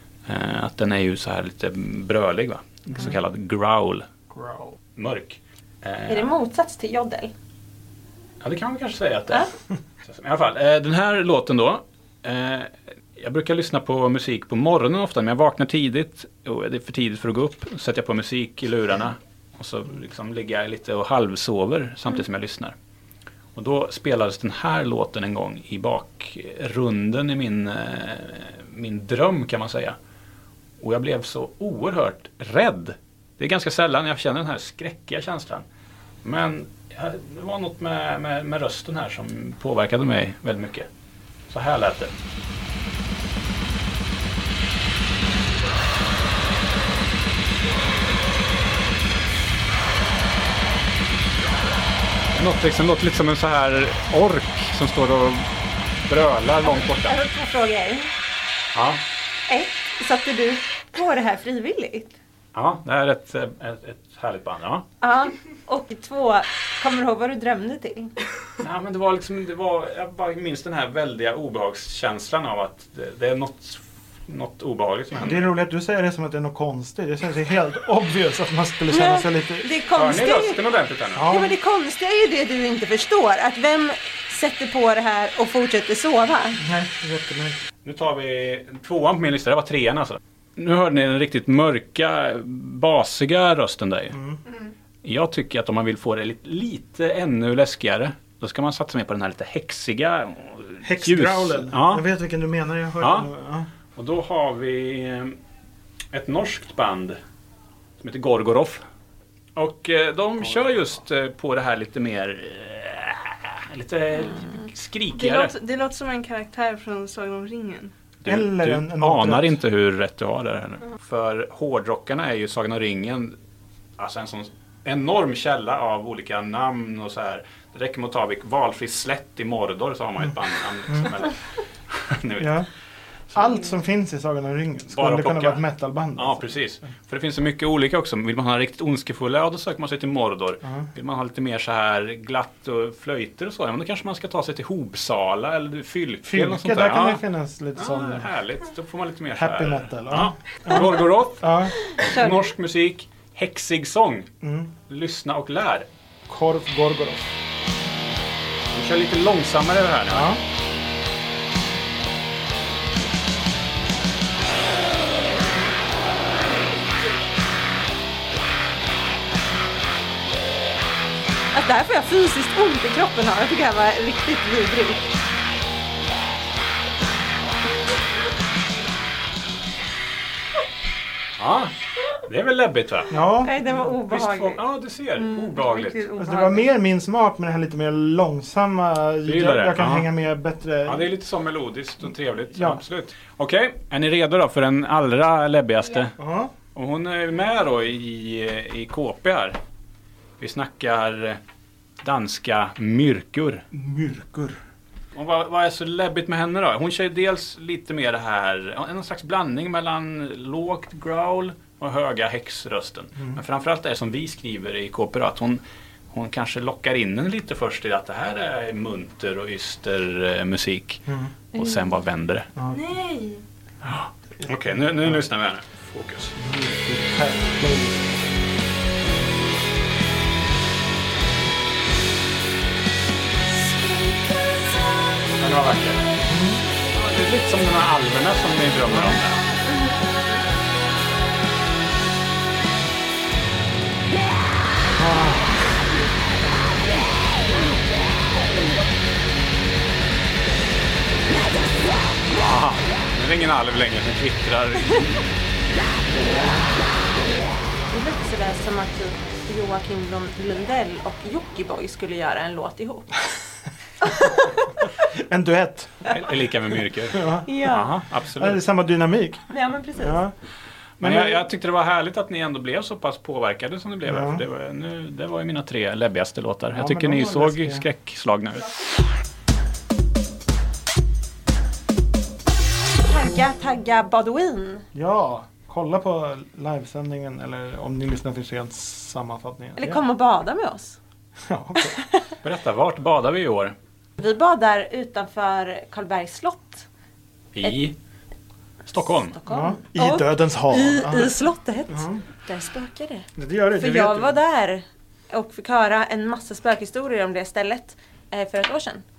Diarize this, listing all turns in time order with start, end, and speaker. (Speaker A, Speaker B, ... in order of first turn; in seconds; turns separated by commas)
Speaker A: 0.3-4.0, Speaker B: 4.3-4.7, Speaker A: 5.0-6.3, Speaker C: 6.1-7.3, Speaker A: 8.4-9.5, Speaker A: 10.0-22.7, Speaker A: 23.6-29.9, Speaker A: 30.8-35.6, Speaker A: 36.2-40.9, Speaker A: 41.5-42.1, Speaker A: 52.3-57.1, Speaker C: 56.6-58.1, Speaker A: 58.7-59.0, Speaker C: 59.5-62.1, Speaker A: 62.5-64.8, Speaker C: 65.0-68.1, Speaker A: 68.6-75.5, Speaker B: 75.2-79.7, Speaker C: 78.9-80.6, Speaker A: 80.0-81.3, Speaker B: 81.1-81.5, Speaker C: 81.3-86.6, Speaker B: 86.6-87.6, Speaker A: 87.8-94.2, Speaker B: 94.1-94.4, Speaker A: 95.0-102.0, Speaker B: 100.8-103.7, Speaker A: 103.0-103.3, Speaker A: 104.0-105.3, Speaker A: 106.1-107.2, Speaker A: 108.0-108.8, Speaker A: 109.5-115.5, Speaker D: 115.1-117.9, Speaker A: 118.2-123.3, Speaker B: 118.2-119.5, Speaker A: 124.0-132.6, Speaker B: 132.4-132.7, Speaker B: 133.3-136.4, Speaker A: 134.9-135.6, Speaker A: 136.2-147.2, Speaker B: 146.2-148.3, Speaker A: 147.8-154.3, Speaker B: 149.3-151.7, Speaker C: 151.9-152.4, Speaker B: 154.4-154.7, Speaker A: 154.9-155.9, Speaker B: 156.3-157.3, Speaker A: 158.7-160.3, Speaker B: 160.1-160.4, Speaker C: 171.5-175.0, Speaker A: 181.4-181.7, Speaker A: 182.2-183.1, Speaker B: 183.1-183.7, Speaker C: 183.3-184.6, Speaker A: 183.8-186.1, Speaker C: 185.2-186.7, Speaker B: 186.2-191.1, Speaker A: 189.2-190.1, Speaker A: 190.8-196.2, Speaker B: 192.5-192.8, Speaker B: 196.2-196.5, Speaker A: 196.7-199.6, Speaker A: 200.4-201.4, Speaker A: 202.0-203.6, Speaker B: 203.7-204.6, Speaker A: 205.1-222.5, Speaker B: 221.1-221.3, Speaker C: 221.5-221.8, Speaker B: 222.6-222.8, Speaker D: 222.7-223.4, Speaker A: 223.8-226.3, Speaker B: 224.4-225.2, Speaker B: 226.4-228.3, Speaker A: 235.4-236.1, Speaker B: 236.2-236.6, Speaker A: 236.9-239.4, Speaker B: 245.0-245.6, Speaker A: 252.4-255.2, Speaker C: 257.9-263.3, Speaker C: 264.0-264.3, Speaker B: 265.0-266.2, Speaker A: 266.1-268.6, Speaker B: 267.1-267.6, Speaker C: 267.4-267.9, Speaker B: 268.3-269.4, Speaker C: 269.5-270.2, Speaker B: 270.0-270.3, Speaker A: 271.0-278.7, Speaker B: 271.0-271.4, Speaker B: 274.1-274.4, Speaker B: 276.7-277.9, Speaker C: 283.1-284.8, Speaker B: 284.9-290.0, Speaker C: 289.8-291.0, Speaker B: 291.5-292.0, Speaker C: 292.0-292.2, Speaker A: 292.4-293.7, Speaker C: 294.2-296.9, Speaker A: 297.5-297.9, Speaker A: 298.9-299.4, Speaker C: 299.2-309.0, Speaker B: 299.5-301.4, Speaker B: 301.9-302.2, Speaker B: 303.4-304.4